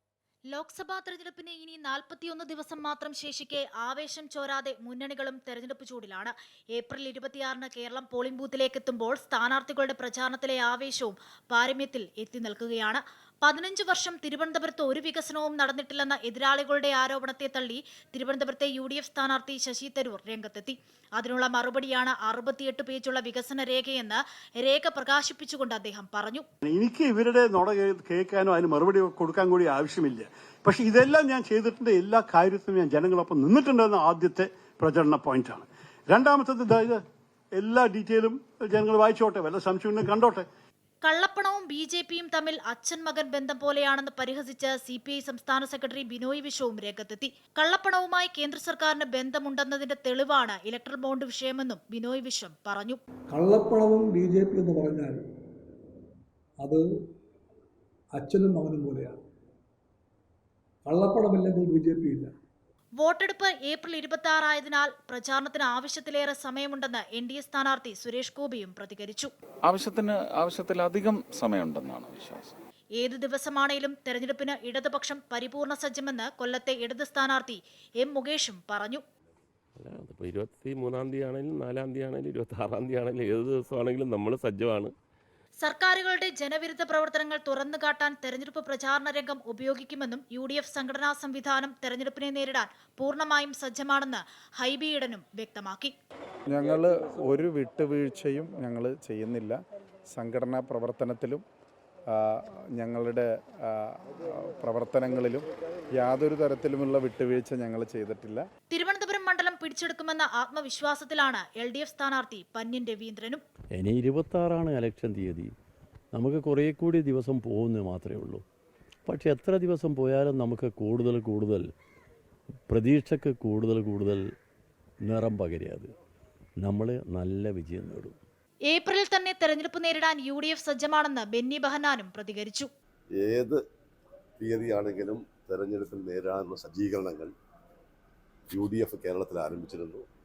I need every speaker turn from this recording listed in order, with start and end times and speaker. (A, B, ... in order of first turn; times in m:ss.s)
0:00.5-0:26.4 A
0:26.6-0:37.0 B
0:37.6-0:40.5 B
0:41.0-0:53.0 A
0:53.3-0:55.2 C
0:58.1-0:59.1 C
1:00.8-1:02.3 C
1:03.0-1:09.3 A
1:09.7-1:12.5 D
1:13.0-1:19.0 A
1:19.8-1:24.9 E
1:25.6-1:35.9 A
1:36.5-1:39.6 F
1:40.1-1:41.4 F
1:42.1-1:45.4 F
1:46.0-1:48.4 F
1:48.7-1:53.4 A
1:53.7-1:55.5 G
1:56.1-1:58.4 G
1:59.0-2:01.7 G
2:02.7-2:04.3 G
2:05.0-2:05.9 G
2:06.6-2:08.2 G
2:08.7-2:12.7 A
2:13.1-2:13.6 H
2:14.4-2:17.3 H
2:18.5-2:20.0 H